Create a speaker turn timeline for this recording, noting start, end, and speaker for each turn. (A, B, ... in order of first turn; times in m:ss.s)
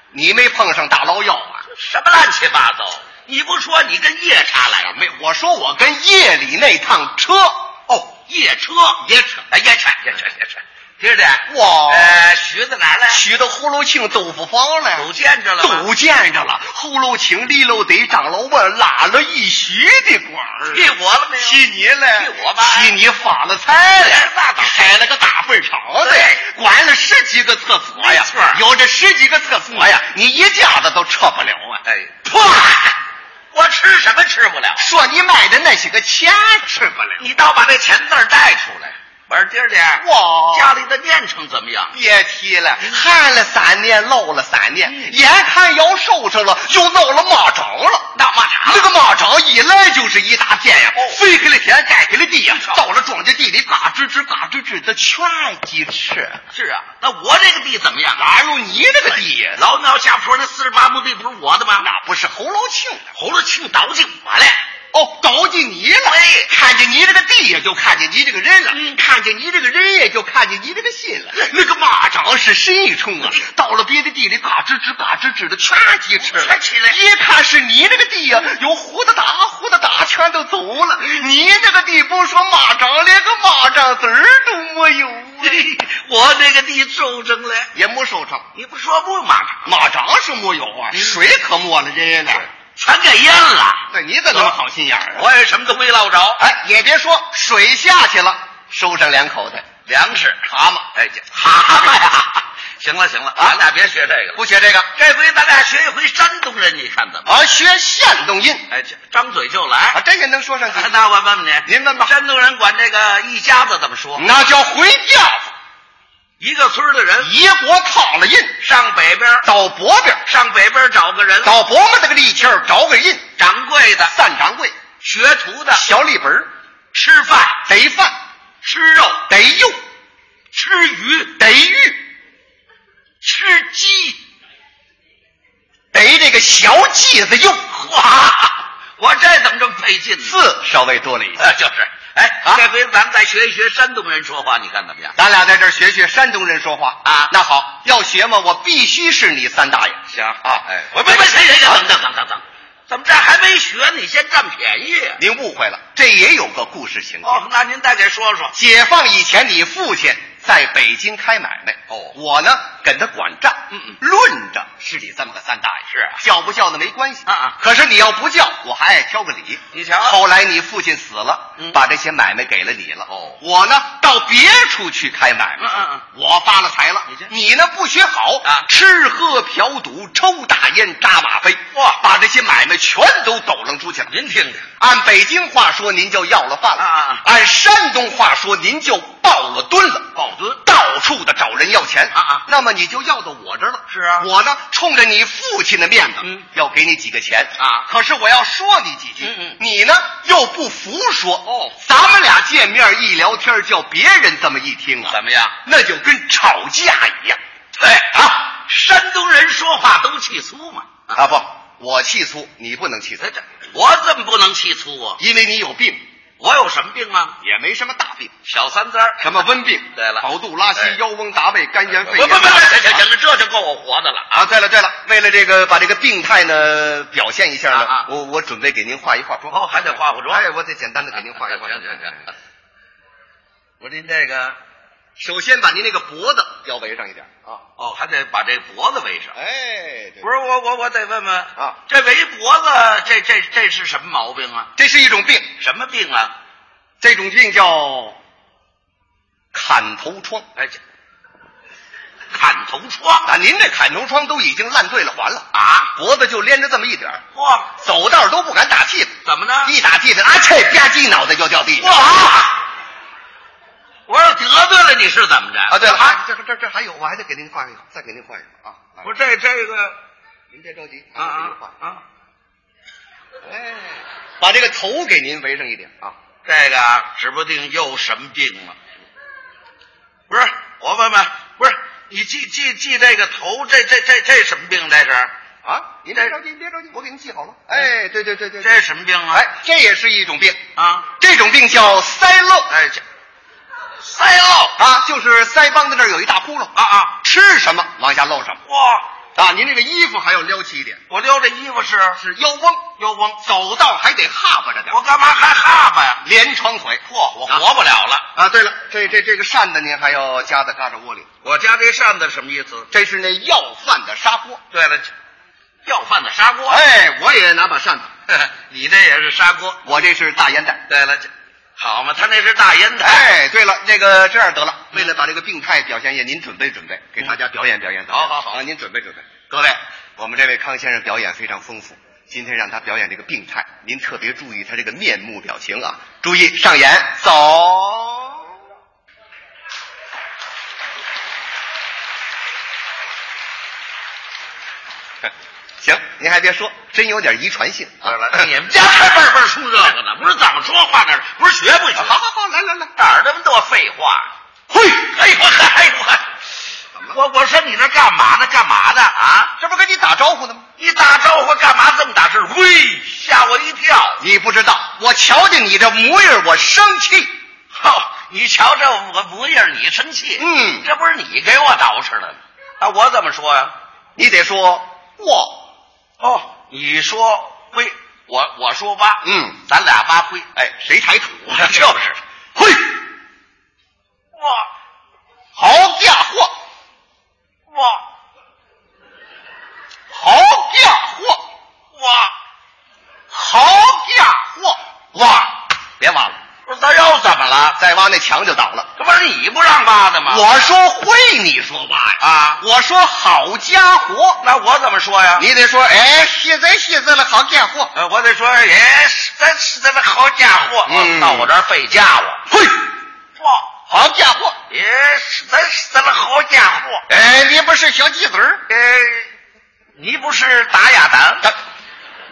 0:00.1-0:01.7 A
0:01.7-0:05.0 B
0:04.9-0:07.7 A
0:07.9-0:13.2 B
0:09.0-0:09.5 A
0:11.5-0:12.2 A
0:13.1-0:31.8 A
0:15.0-0:15.9 B
0:20.7-0:21.6 B
0:22.2-0:23.0 B
0:24.0-0:25.0 B
0:26.0-0:26.4 B
0:28.0-0:28.6 B
0:31.8-0:33.0 B
0:33.5-0:34.9 B
0:34.8-0:37.3 A
0:37.2-0:42.0 B
0:40.0-0:40.8 A
0:41.9-0:48.1 A
0:44.9-0:45.2 B
0:48.1-0:48.9 B
0:48.6-0:56.4 A
0:52.5-0:52.8 B
0:56.5-0:58.3 B
0:58.2-0:59.6 A
0:59.1-1:01.9 B
1:01.8-1:03.1 A
1:03.2-1:04.6 B
1:04.9-1:25.7 A
1:06.1-1:06.5 B
1:16.2-1:17.0 B
1:25.4-1:27.7 B
1:27.7-1:28.5 A
1:28.6-1:29.7 B
1:29.6-1:32.5 A
1:30.9-1:31.2 B
1:32.4-1:34.6 B
1:33.9-1:35.3 A
1:35.2-1:36.4 B
1:36.4-1:39.7 A
1:39.9-1:40.4 B
1:40.5-1:40.9 A
1:40.9-1:44.4 B
1:44.4-1:44.9 A
1:45.0-1:47.3 B
1:47.2-1:48.7 A
1:48.7-1:50.0 B
1:49.9-1:50.9 A
1:50.7-1:54.3 B
1:51.6-1:52.1 A
1:54.2-1:55.5 A
1:56.4-1:57.3 B
1:57.2-1:58.6 A
1:58.6-1:59.5 B
1:59.4-2:00.3 A
2:00.3-2:01.6 B
2:01.4-2:03.2 A
2:03.4-2:04.1 B
2:04.0-2:04.8 A
2:05.0-2:05.9 B
2:05.7-2:06.5 A
2:06.9-2:07.6 B
2:07.6-2:08.2 A
2:08.6-2:09.2 B
2:09.3-2:09.8 A
2:10.5-2:11.3 B
2:11.4-2:12.0 A
2:13.2-2:14.2 B
2:15.9-2:17.8 A
2:17.8-2:20.4 B
2:20.2-2:21.5 A
2:21.4-2:25.2 B
2:25.2-2:31.8 A
2:27.0-2:27.3 B
2:30.1-2:35.2 B
2:35.2-2:37.5 A
2:37.2-2:38.5 B
2:38.5-3:04.1 A
2:45.9-2:46.2 B
2:47.3-2:47.6 B
2:49.7-2:50.2 B
2:53.1-2:53.4 B
2:55.6-2:56.0 B
3:01.7-3:02.0 B
3:04.1-3:04.7 B
3:04.8-3:27.4 A
3:06.8-3:07.2 B
3:10.2-3:10.6 B
3:12.1-3:12.4 B
3:13.9-3:14.3 B
3:17.6-3:17.9 B
3:19.2-3:19.6 B
3:21.5-3:21.7 B
3:25.1-3:25.6 B
3:27.8-3:31.2 B
3:31.1-3:33.3 A
3:33.2-3:35.2 B
3:35.2-3:36.0 A
3:36.4-3:37.4 B
3:37.4-3:38.4 A
3:38.5-3:39.4 B
3:39.2-3:43.1 A
3:40.0-3:41.0 B
3:42.0-3:44.3 B
3:44.3-3:52.3 A
3:47.7-3:48.1 B
3:49.5-3:50.4 B
3:51.2-3:52.2 B
3:53.8-3:54.6 B
3:55.2-3:57.6 A
3:57.8-3:59.3 B
3:59.3-4:00.3 A
4:00.2-4:04.7 B
4:04.8-4:05.5 A
4:05.6-4:06.3 B
4:07.0-4:08.2 A
4:09.5-4:10.5 A
4:12.3-4:13.3 B
4:13.2-4:17.2 A
4:15.5-4:15.9 B
4:17.4-4:17.7 B
4:17.8-4:22.0 A
4:19.2-4:19.7 B
4:21.7-4:22.6 B
4:24.1-4:26.2 B
4:25.7-4:29.2 A
4:29.0-4:30.0 B
4:30.5-4:31.7 A
4:31.2-4:32.0 B
4:33.4-4:36.1 A
4:36.4-4:38.8 B
4:40.3-4:45.3 B
4:45.6-4:50.6 A
4:48.6-4:49.5 B
4:50.8-4:51.1 B
4:51.2-4:52.7 A
4:52.7-4:53.0 B
4:54.0-4:54.8 B
4:54.8-4:58.6 A
4:56.8-4:57.1 B
4:58.7-4:59.0 B
4:59.4-5:01.0 A
5:01.1-5:02.2 B
5:02.2-5:05.0 A
5:04.9-5:06.2 B
5:06.2-5:07.7 A
5:07.1-5:08.2 B
5:08.4-5:11.3 A
5:11.4-5:12.9 B
5:12.9-5:14.6 A
5:14.7-5:15.1 B
5:15.9-5:16.8 B
5:16.7-5:18.1 A
5:18.3-5:19.8 B
5:19.8-5:20.8 A
5:20.9-5:23.3 B
5:23.0-5:38.5 A
5:24.9-5:25.2 B
5:28.1-5:28.5 B
5:45.8-5:48.5 A
5:48.0-5:52.2 B
5:52.0-5:52.9 A
5:53.0-5:56.2 B
5:57.1-5:59.5 B
5:59.6-6:00.7 A
6:00.8-6:04.2 B
6:04.2-6:07.3 A
6:07.8-6:13.7 B
6:10.4-6:10.9 A
6:14.2-6:15.7 A
6:16.2-6:20.5 B
6:19.2-6:19.6 A
6:20.6-6:21.9 A
6:21.5-6:22.2 B
6:22.6-6:22.8 A
6:24.4-6:24.7 B
6:25.6-6:26.5 A
6:27.7-6:28.0 B
6:30.1-6:31.4 A
6:32.0-6:32.3 B
6:33.3-6:36.4 A
6:36.7-6:37.8 B
6:37.8-6:38.9 A
6:39.0-6:40.4 B
6:40.3-6:44.4 A
6:42.2-6:42.6 B
6:44.4-6:45.5 B
6:45.4-6:47.9 A
6:48.0-6:52.4 B
6:50.9-6:51.5 A
6:53.4-6:53.6 B
6:53.9-6:54.6 A
6:54.7-6:57.0 B
6:57.1-6:58.6 A
6:58.7-6:59.3 B
7:00.0-7:01.5 B